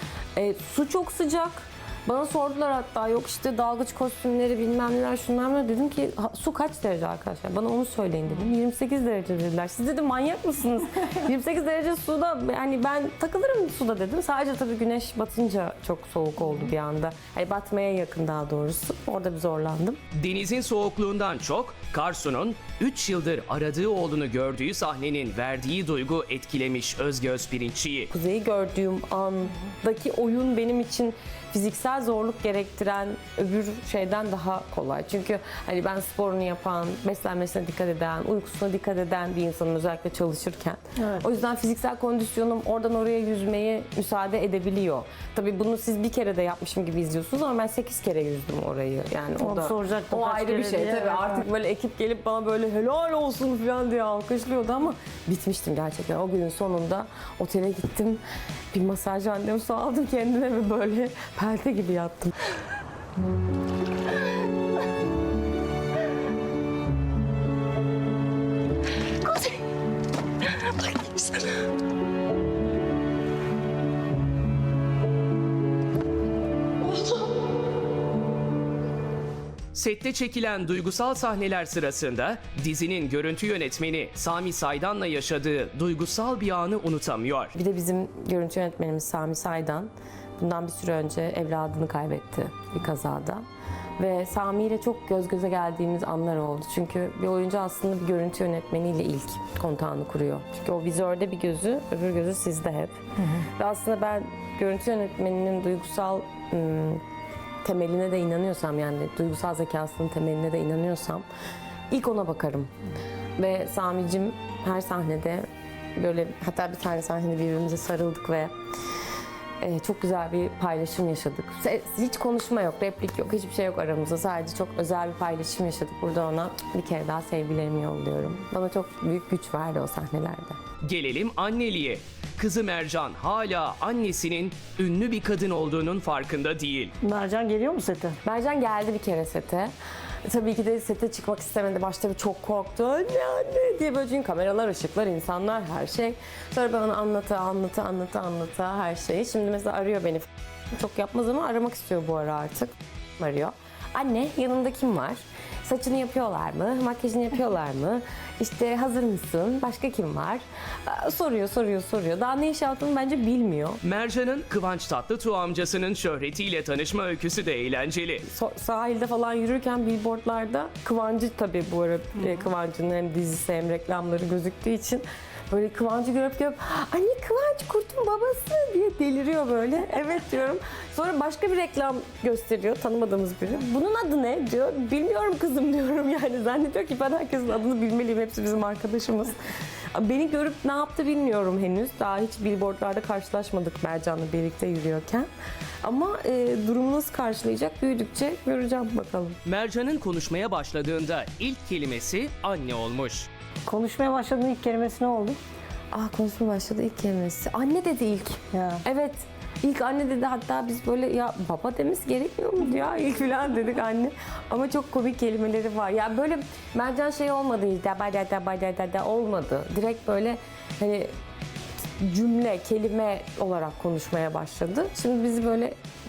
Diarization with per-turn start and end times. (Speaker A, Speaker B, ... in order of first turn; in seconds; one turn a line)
Speaker A: 0.4-20.0
Speaker B: 20.1-28.1
Speaker A: 28.1-58.2
Speaker C: 41.0-41.2
Speaker C: 49.4-51.5
Speaker A: 58.7-62.3
Speaker B: 79.7-87.5
Speaker A: 87.6-93.4
Speaker A: 94.0-107.0
Speaker A: 107.6-111.2
Speaker A: 111.9-112.7
Speaker A: 113.4-118.5
Speaker A: 119.6-130.6
Speaker B: 130.8-136.9
Speaker C: 137.0-138.2
Speaker A: 138.2-139.7
Speaker A: 140.2-163.8
Speaker B: 163.8-168.2
Speaker A: 168.3-189.4
Speaker A: 189.9-195.3
Speaker A: 195.8-199.4
Speaker B: 199.4-203.3
Speaker C: 203.7-205.4
Speaker A: 205.9-221.1
Speaker C: 208.5-208.8
Speaker A: 222.0-225.8